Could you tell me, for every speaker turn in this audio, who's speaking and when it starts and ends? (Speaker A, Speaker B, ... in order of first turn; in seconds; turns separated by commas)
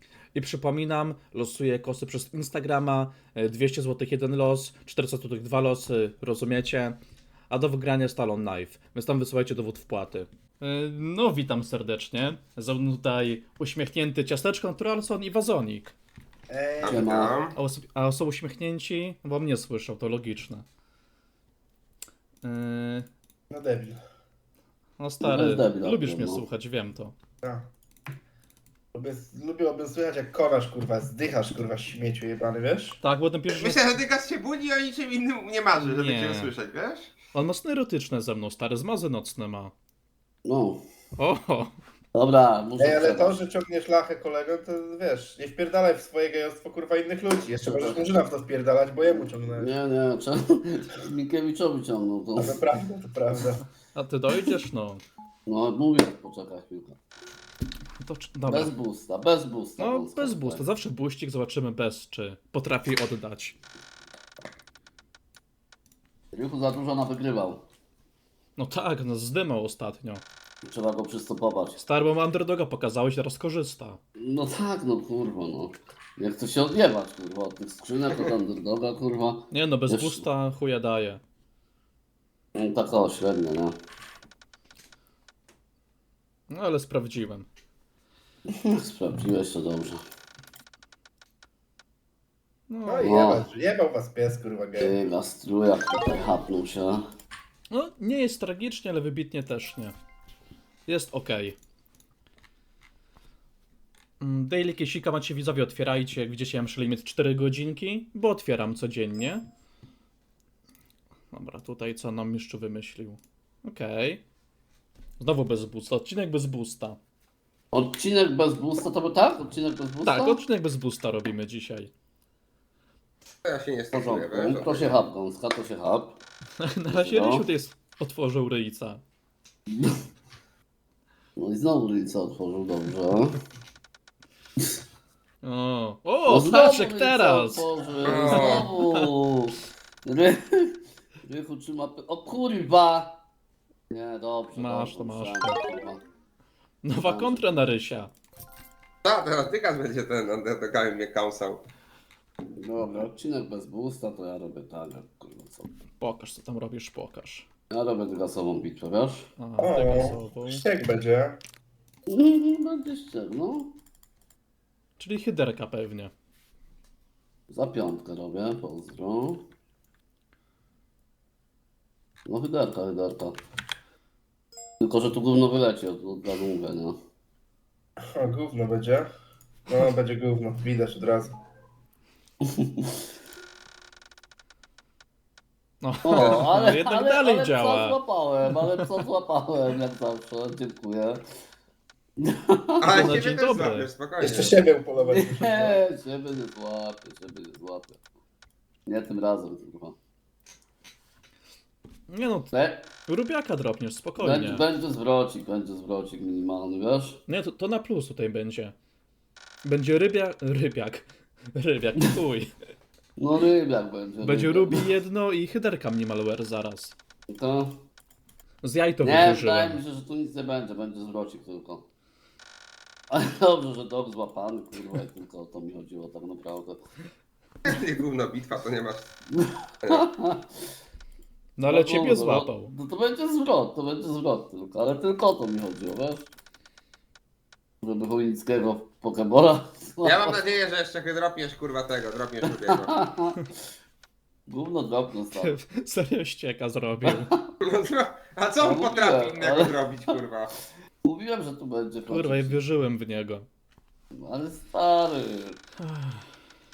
Speaker A: 0.3-7.0, Speaker A: 7.5-15.9, Speaker B: 16.5-17.2, Speaker C: 16.8-17.5, Speaker D: 16.8-17.4, Speaker A: 17.5-20.6, Speaker A: 22.4-23.1, Speaker B: 23.5-24.0, Speaker A: 25.0-27.1, Speaker D: 25.2-26.4, Speaker B: 27.4-27.7, Speaker B: 28.9-33.0, Speaker A: 33.0-34.0, Speaker C: 33.5-37.1, Speaker A: 35.8-36.5, Speaker A: 37.3-39.7, Speaker D: 40.4-40.8, Speaker A: 41.2-41.7, Speaker D: 42.1-43.4, Speaker B: 42.8-49.7, Speaker D: 47.6-48.1, Speaker D: 49.5-52.6, Speaker B: 52.4-53.6, Speaker A: 53.9-55.0, Speaker D: 55.5-57.0, Speaker A: 58.0-58.7, Speaker D: 58.5-60.6, Speaker A: 59.8-63.6, Speaker D: 66.3-67.6, Speaker A: 68.5-70.2, Speaker D: 70.6-71.8, Speaker A: 71.8-74.0, Speaker D: 74.2-80.2, Speaker A: 79.5-81.2, Speaker D: 82.5-83.7, Speaker A: 86.5-87.5, Speaker D: 88.5-90.0, Speaker A: 92.7-93.1, Speaker B: 92.8-95.0, Speaker D: 93.0-93.5, Speaker D: 94.8-97.0, Speaker A: 97.7-99.9, Speaker A: 100.9-101.6, Speaker A: 104.2-109.4, Speaker A: 111.3-114.2, Speaker A: 115.2-117.0, Speaker D: 117.7-120.4, Speaker A: 120.0-121.9, Speaker C: 123.4-125.0, Speaker D: 123.9-126.2, Speaker A: 126.6-129.0, Speaker D: 126.9-127.5, Speaker D: 131.4-133.4, Speaker A: 135.4-137.7, Speaker D: 136.2-143.2, Speaker C: 138.0-138.7, Speaker A: 138.2-139.1, Speaker D: 143.9-146.0, Speaker A: 144.6-145.6, Speaker A: 146.8-148.1, Speaker D: 147.0-147.5, Speaker C: 149.0-151.6, Speaker D: 152.6-155.7, Speaker A: 156.0-157.5, Speaker D: 157.7-159.3, Speaker A: 159.4-160.6, Speaker B: 159.6-161.4, Speaker D: 162.1-163.7, Speaker A: 165.0-166.1, Speaker D: 167.5-169.4, Speaker D: 172.3-173.4, Speaker D: 174.8-176.9, Speaker B: 178.1-179.1, Speaker B: 179.7-181.4, Speaker D: 182.6-182.9, Speaker A: 185.8-188.0, Speaker D: 186.0-191.2, Speaker C: 186.2-186.5, Speaker A: 188.5-188.8, Speaker D: 192.2-193.2, Speaker C: 192.8-194.6, Speaker A: 192.9-193.9, Speaker B: 194.2-195.8, Speaker D: 195.0-198.0, Speaker D: 198.8-199.9, Speaker A: 202.1-202.5, Speaker D: 202.5-202.9, Speaker A: 203.1-204.6, Speaker D: 204.2-207.2, Speaker A: 207.3-208.7, Speaker A: 209.6-212.5, Speaker D: 213.2-214.9, Speaker A: 214.2-216.9, Speaker D: 217.3-217.8, Speaker A: 218.6-219.8, Speaker D: 219.0-221.8, Speaker D: 223.1-226.8, Speaker C: 227.6-229.1, Speaker D: 229.3-230.5, Speaker A: 231.6-232.7, Speaker D: 231.7-236.3, Speaker D: 237.8-240.4, Speaker C: 240.0-243.0, Speaker D: 242.8-243.3, Speaker D: 244.5-245.6, Speaker A: 245.3-247.3, Speaker C: 247.6-250.5, Speaker D: 248.6-250.2, Speaker D: 251.0-252.6, Speaker A: 252.1-253.4, Speaker D: 254.1-255.6, Speaker A: 255.8-256.2